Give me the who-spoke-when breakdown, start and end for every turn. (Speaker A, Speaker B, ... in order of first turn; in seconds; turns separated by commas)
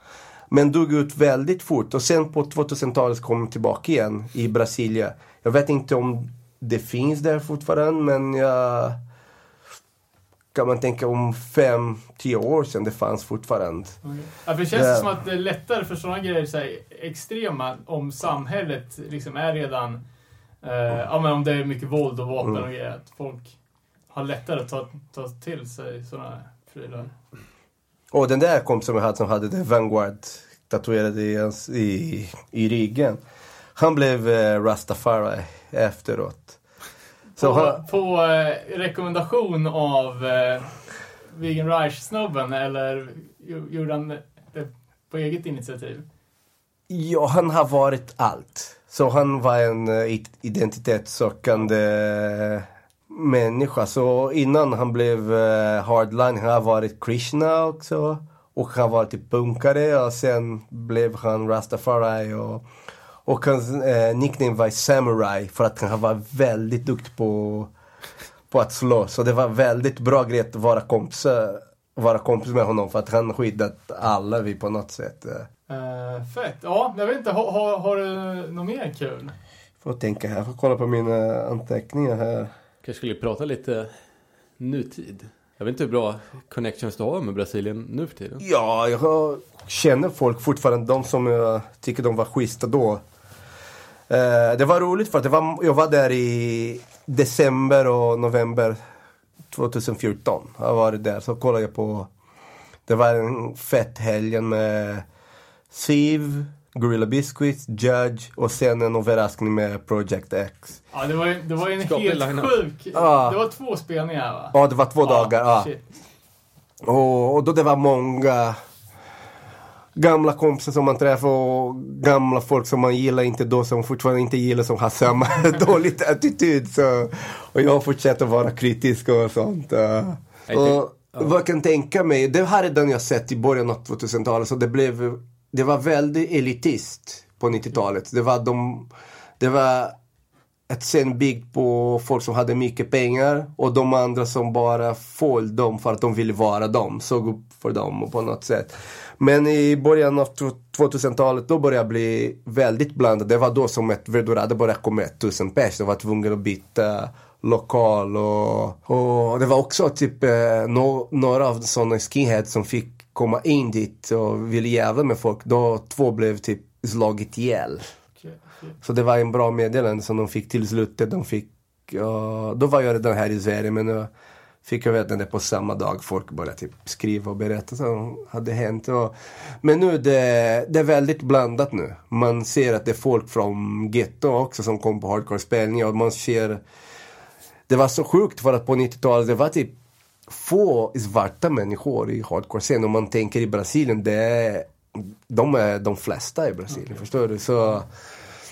Speaker A: 0.5-9.0, Speaker A: 10.5-14.0, Speaker B: 14.0-20.0, Speaker A: 14.7-15.1, Speaker B: 20.6-23.6, Speaker B: 24.1-27.1, Speaker A: 28.1-33.2, Speaker A: 33.8-36.6, Speaker B: 37.4-40.8, Speaker A: 37.4-37.8, Speaker B: 41.3-46.0, Speaker A: 46.9-62.6, Speaker A: 63.2-67.7, Speaker A: 68.5-75.5, Speaker B: 75.7-79.3, Speaker A: 79.8-82.5, Speaker C: 82.8-83.9, Speaker C: 84.6-88.5, Speaker A: 88.4-93.0, Speaker A: 94.1-98.8, Speaker A: 99.5-102.1, Speaker A: 102.9-105.0, Speaker A: 105.7-110.8, Speaker B: 110.9-115.8, Speaker C: 111.6-112.6, Speaker A: 112.9-113.4, Speaker A: 114.5-115.7, Speaker A: 116.8-118.6, Speaker A: 120.0-138.9, Speaker C: 130.5-131.3, Speaker A: 139.4-139.9, Speaker A: 140.7-167.8, Speaker B: 168.2-168.7, Speaker A: 168.8-174.1, Speaker A: 174.6-186.6, Speaker A: 187.7-189.7, Speaker A: 190.3-197.9